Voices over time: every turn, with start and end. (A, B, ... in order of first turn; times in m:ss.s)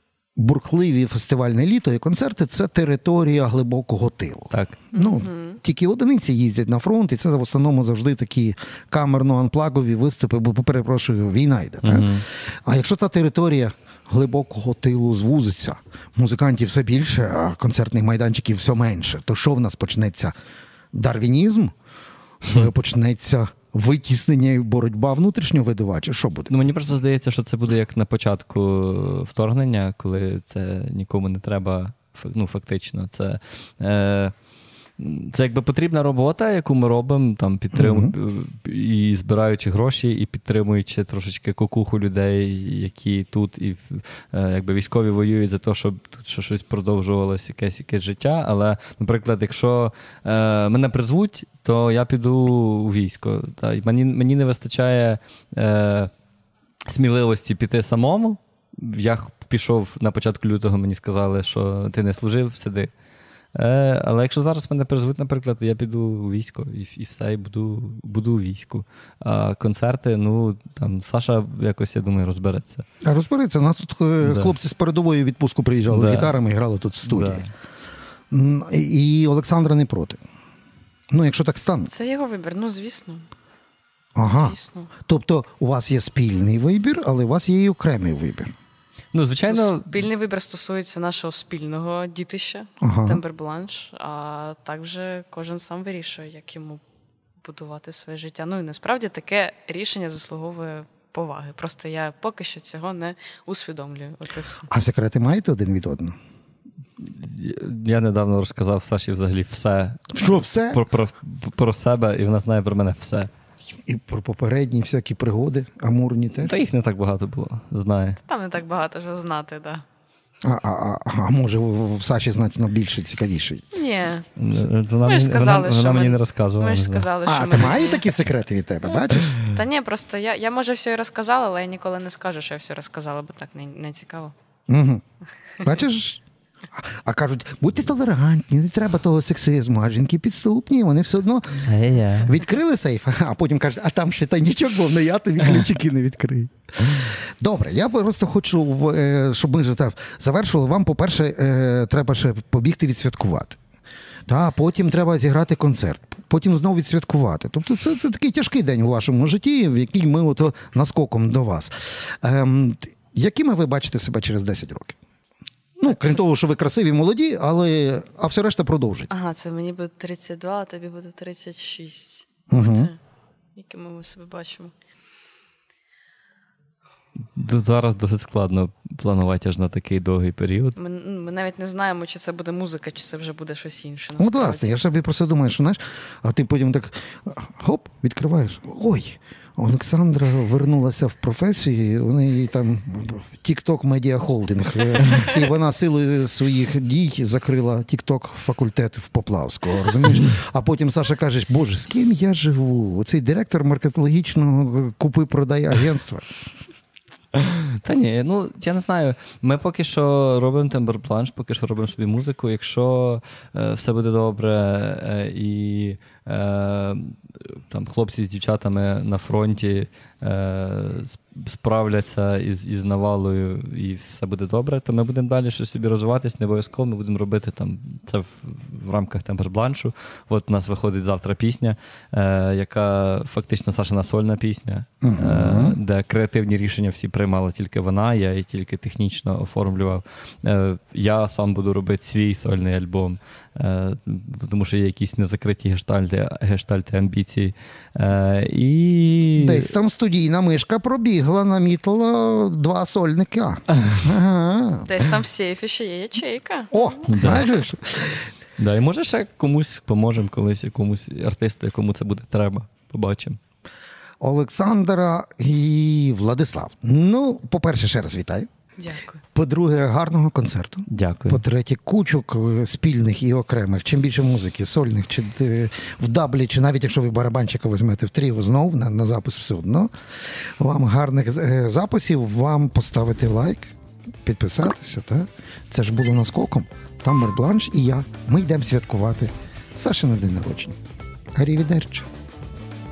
0:00.4-0:20.4 A
0:04.5-0:04.8 B
0:04.9-0:05.6 C
0:11.8-0:12.3 B
0:20.9-0:21.7 A
0:22.4-0:26.5 A
0:26.5-0:34.3 B
0:35.0-0:56.1 B
0:37.7-0:38.1 A
0:56.9-1:02.9 B
1:03.6-1:12.8 B
1:13.0-1:17.4 A
1:14.2-1:14.5 B
1:15.9-1:16.3 B
1:17.0-1:17.5 B
1:18.3-1:20.2 A
1:21.1-1:21.9 A
1:21.9-1:23.3 C
1:24.2-1:28.5 A
1:24.2-1:24.9 C
1:29.1-1:30.0 B
1:29.5-1:36.8 C
1:32.8-1:33.2 A
1:37.4-1:44.7 C
1:44.7-1:46.2 A
1:47.0-1:53.3 B
1:50.1-1:50.8 A
1:53.9-1:56.6 A
1:56.4-1:58.2 B
1:58.2-1:59.8 C
2:00.4-2:03.7 A
2:03.7-2:04.3 C
2:04.4-2:07.1 B
2:05.0-2:08.2 C
2:07.3-2:09.4 A
2:09.5-2:14.3 C
2:14.7-2:15.0 A
2:15.6-2:16.2 A
2:16.8-2:33.6 A
2:21.7-2:22.4 B
2:34.3-2:45.0 A
2:45.8-2:49.1 A
2:45.9-2:46.2 C
2:49.1-2:53.0 C
2:52.5-2:52.9 A
2:53.6-2:54.7 C
2:57.4-3:00.8 B
3:00.8-3:04.8 C
3:04.2-3:26.3 A
3:27.4-4:09.7 B
3:55.0-3:55.8 A
4:09.3-4:14.9 A
4:13.8-4:14.0 B
4:14.9-4:17.0 C
4:16.7-4:18.3 A
4:17.1-4:17.5 B
4:18.6-4:23.4 B
4:24.2-4:28.5 A
4:28.8-4:29.2 C
4:29.3-4:43.7 A
4:30.9-4:31.4 B
4:44.2-4:50.8 A
4:51.4-4:52.1 A